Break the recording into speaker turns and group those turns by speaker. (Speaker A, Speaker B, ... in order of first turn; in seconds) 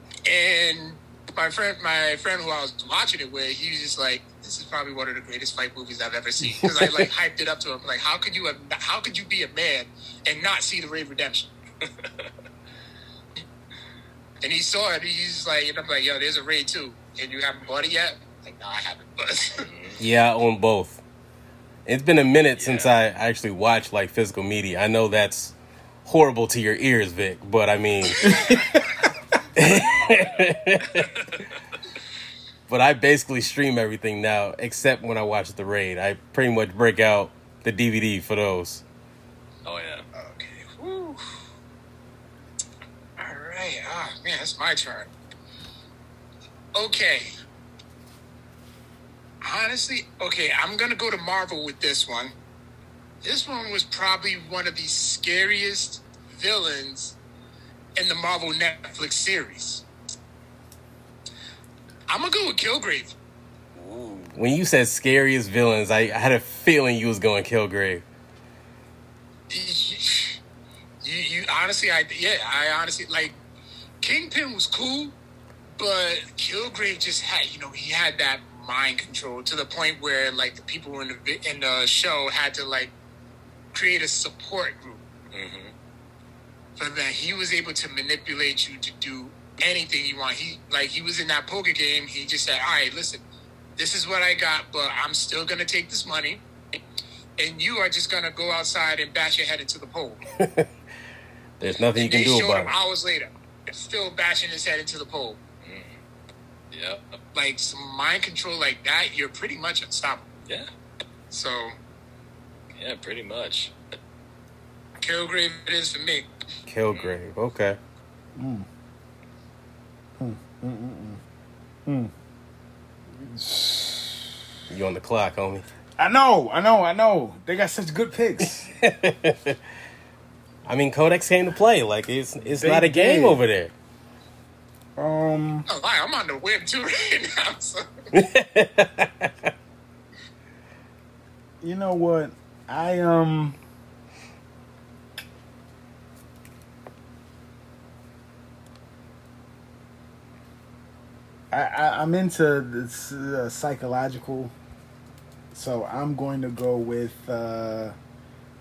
Speaker A: 0.3-11.5, 14.4-19.7, 40.1-41.2, 43.2-45.1, 46.7-47.3, 49.4-52.3, 53.2-57.1, 58.0-59.8, 62.1-63.1, 69.5-70.4, 71.0-73.4, 74.0-75.1, 75.8-82.9, 83.7-85.0, 86.8-93.2, 93.8-96.4, 97.4-100.2, 101.9-105.4, 107.3-110.2, 111.3-111.7, 115.0-116.3, 135.7-137.8
Speaker B: 6.5-6.9, 20.0-21.0, 21.9-25.5, 26.0-28.3, 29.6-31.1, 32.7-38.8, 64.3-68.0, 100.4-100.7, 101.6-102.7, 116.7-117.8, 124.7-125.7, 128.7-129.6, 130.7-133.7, 138.1-139.5
Speaker C: 11.8-12.3, 19.6-20.0, 22.6-22.9, 29.6-31.5, 39.6-40.0, 63.8-64.4, 85.3-85.7, 105.6-106.0, 106.7-107.2, 112.8-113.8
Speaker D: 28.2-28.8, 118.3-118.7, 120.2-121.2, 121.8-122.1, 123.2-124.3, 126.0-128.7, 132.4-133.4, 134.9-135.7, 141.6-143.6, 151.5-154.5, 155.5-157.9